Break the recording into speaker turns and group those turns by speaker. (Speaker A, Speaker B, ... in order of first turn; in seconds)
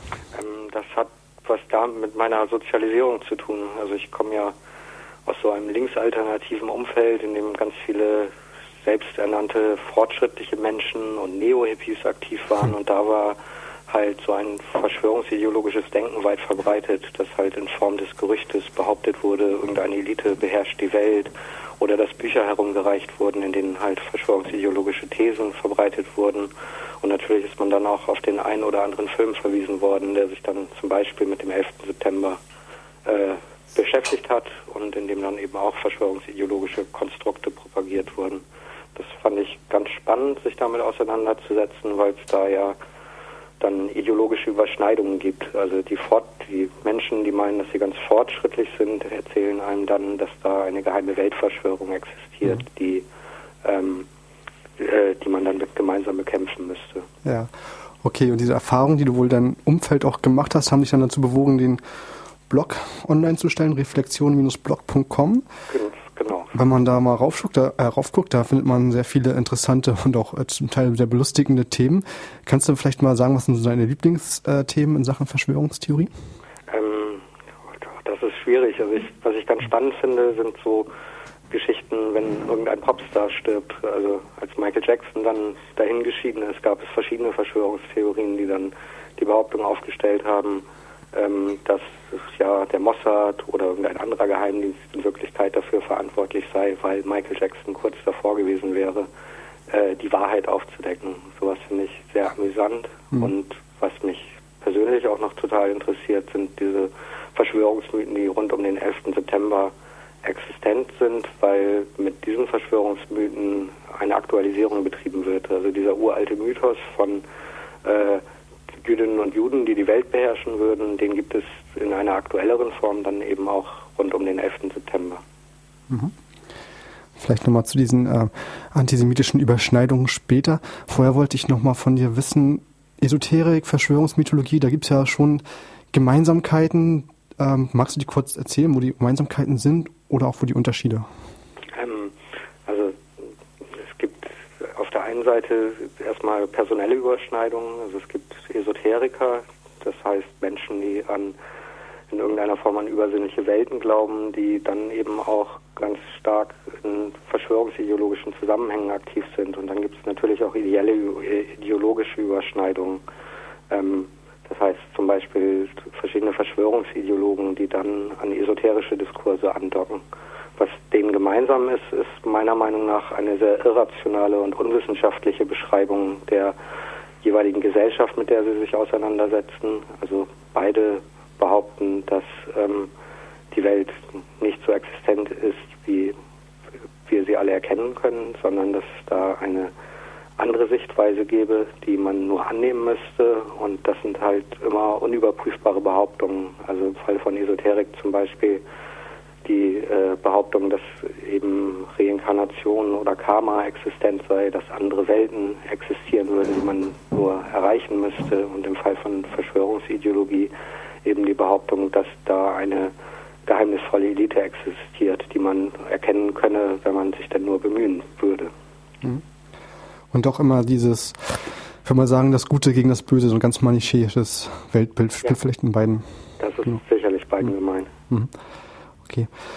Speaker A: 0.3-4.5, 5.2-8.3, 8.8-13.4, 13.9-26.5, 27.0-32.4, 33.0-38.4, 38.9-42.8, 43.6-53.0, 53.6-54.1, 54.8-57.0, 65.7-66.5, 76.7-77.2, 77.9-80.9, 81.5-99.1, 99.7-109.7, 110.2-117.2, 117.8-118.2, 118.8-125.2, 141.7-142.1, 142.7-142.9, 143.8-151.3, 152.1-163.0, 163.7-170.0, 170.6-176.5, 177.2-182.9, 183.5-186.1, 187.1-189.7, 190.4-198.6, 199.4-210.5, 211.0-212.9, 213.4-218.5, 226.4-227.9
Speaker B: 57.2-57.5, 58.0-61.8, 62.5-65.4, 66.5-76.1, 127.2-141.1, 220.1-226.1